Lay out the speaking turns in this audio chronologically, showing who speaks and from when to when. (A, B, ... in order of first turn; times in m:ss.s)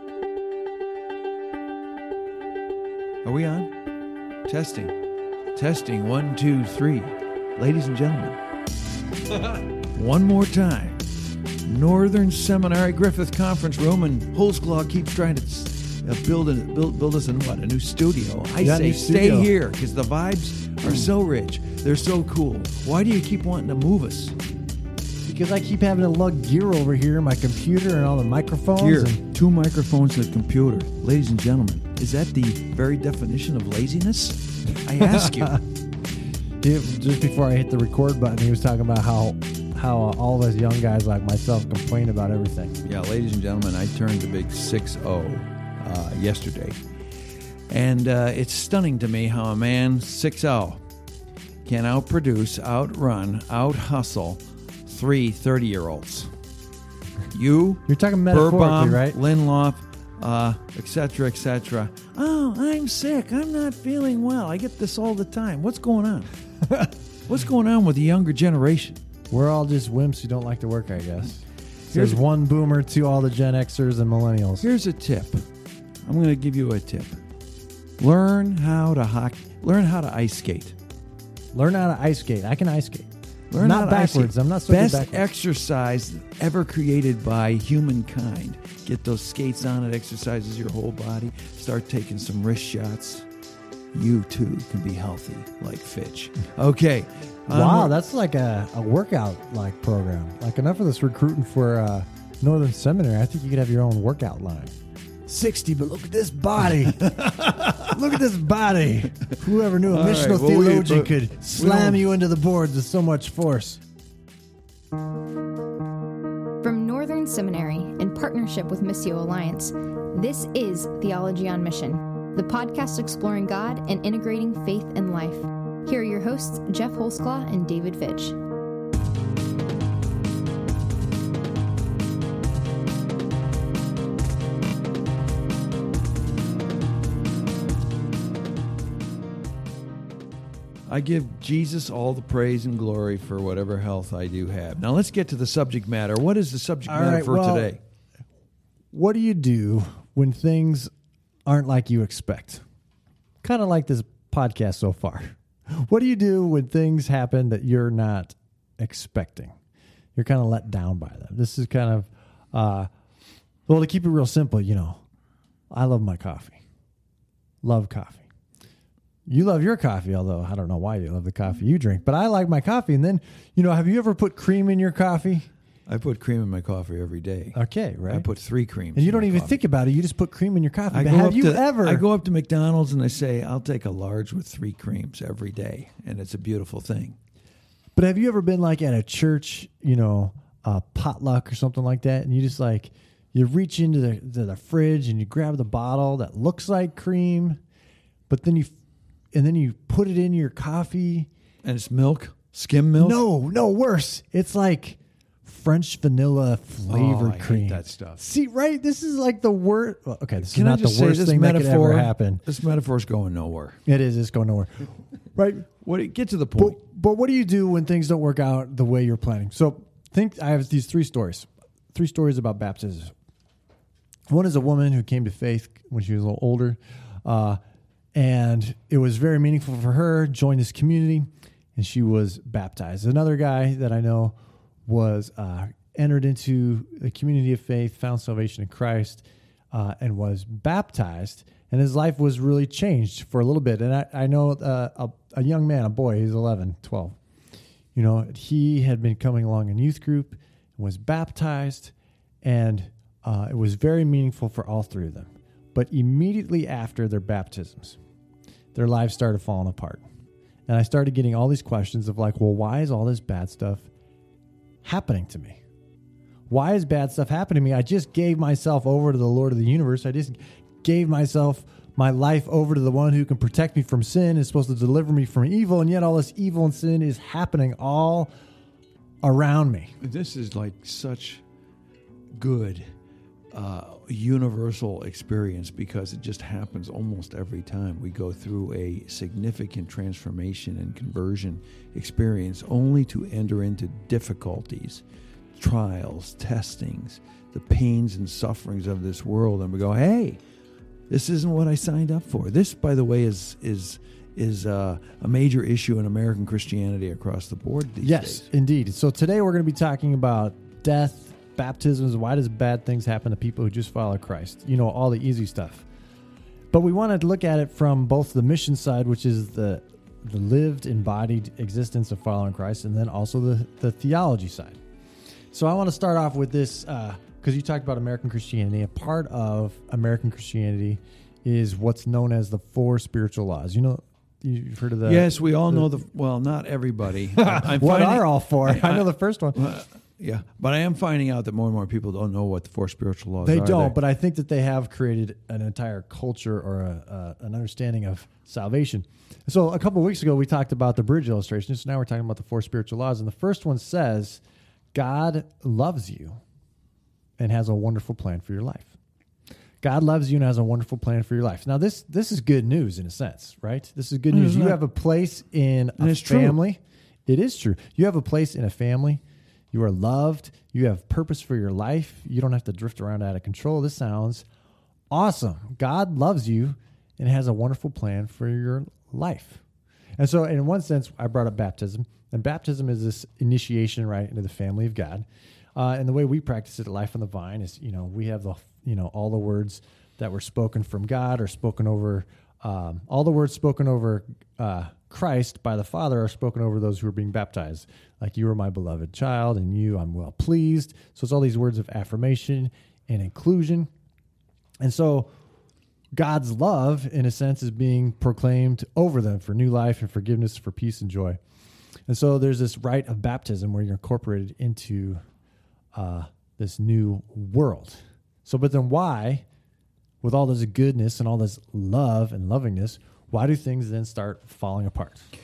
0:03.2-0:03.7 A
0:04.5-0:04.9 A
0:05.5-0:08.4 A
0:09.9-0:11.0 A
0:11.6-0:24.4 A
0:18.6-0:19.5 B
0:25.2-0:29.2 B
0:28.8-0:35.6 A
0:35.0-0:35.6 B
0:36.6-0:42.8 B
0:42.8-0:46.8 A
0:47.7-0:50.8 A
0:51.6-0:56.3 A
0:57.3-1:06.3 A
0:57.9-0:59.2 B
1:06.7-1:06.9 B
1:07.3-1:09.0 A
1:09.3-1:14.7 B
1:11.9-1:12.2 A
1:14.6-1:15.5 A
1:16.1-1:17.2 A
1:18.0-1:20.8 A
1:21.5-1:25.2 B
1:23.5-1:33.3 A
1:33.9-1:38.0 A
1:37.5-1:44.8 B
1:45.3-1:53.8 B
1:47.0-1:47.8 A
1:49.9-1:52.1 A
1:56.6-2:08.4 C
2:20.9-2:27.8 A
2:26.9-2:27.7 B
2:28.9-2:30.9 B
2:31.5-2:32.6 B
2:33.4-2:39.6 B
2:40.2-2:42.9 B
2:43.7-2:45.0 B
2:45.7-2:46.6 B
2:47.6-2:48.3 B
2:49.3-2:55.5 B
2:55.9-2:59.6 A
2:57.6-2:58.3 B
2:58.9-3:02.0 B
3:00.9-3:07.2 A
3:08.0-3:17.6 B
3:18.3-3:18.7 B
3:19.3-3:21.3 B
3:21.6-3:23.2 A
3:23.0-3:32.4 B
3:26.9-3:28.2 A
3:30.5-3:33.8 A
3:33.9-3:35.7 B
3:35.8-3:36.8 A
3:36.6-3:43.1 B
3:44.3-3:47.6 B
3:48.2-4:07.2 B
4:07.9-4:18.0 B
4:18.7-4:20.0 B
4:20.7-4:23.9 B
4:24.8-4:25.6 B
4:26.5-4:38.3 B
4:39.2-4:39.9 B
4:40.0-4:41.4 A
4:42.4-4:42.9 A
4:43.5-4:55.0 A
4:55.6-5:00.4 A
5:01.1-5:08.5 A
5:08.0-5:15.9 B
5:16.7-5:24.8 B
5:25.5-5:35.9 B
5:35.1-5:44.0 A
5:37.4-5:39.6 B
5:43.4-5:54.4 B
5:54.9-5:56.4 B
5:57.4-5:58.9 B
5:59.8-6:14.4 B
6:04.3-6:04.8 A
6:06.0-6:06.6 A
6:15.1-6:19.6 B
6:20.2-6:43.9 B
6:44.8-6:45.3 B
6:46.1-6:51.4 B
6:52.1-6:55.2 B
6:55.9-6:59.4 B
7:00.2-7:05.2 B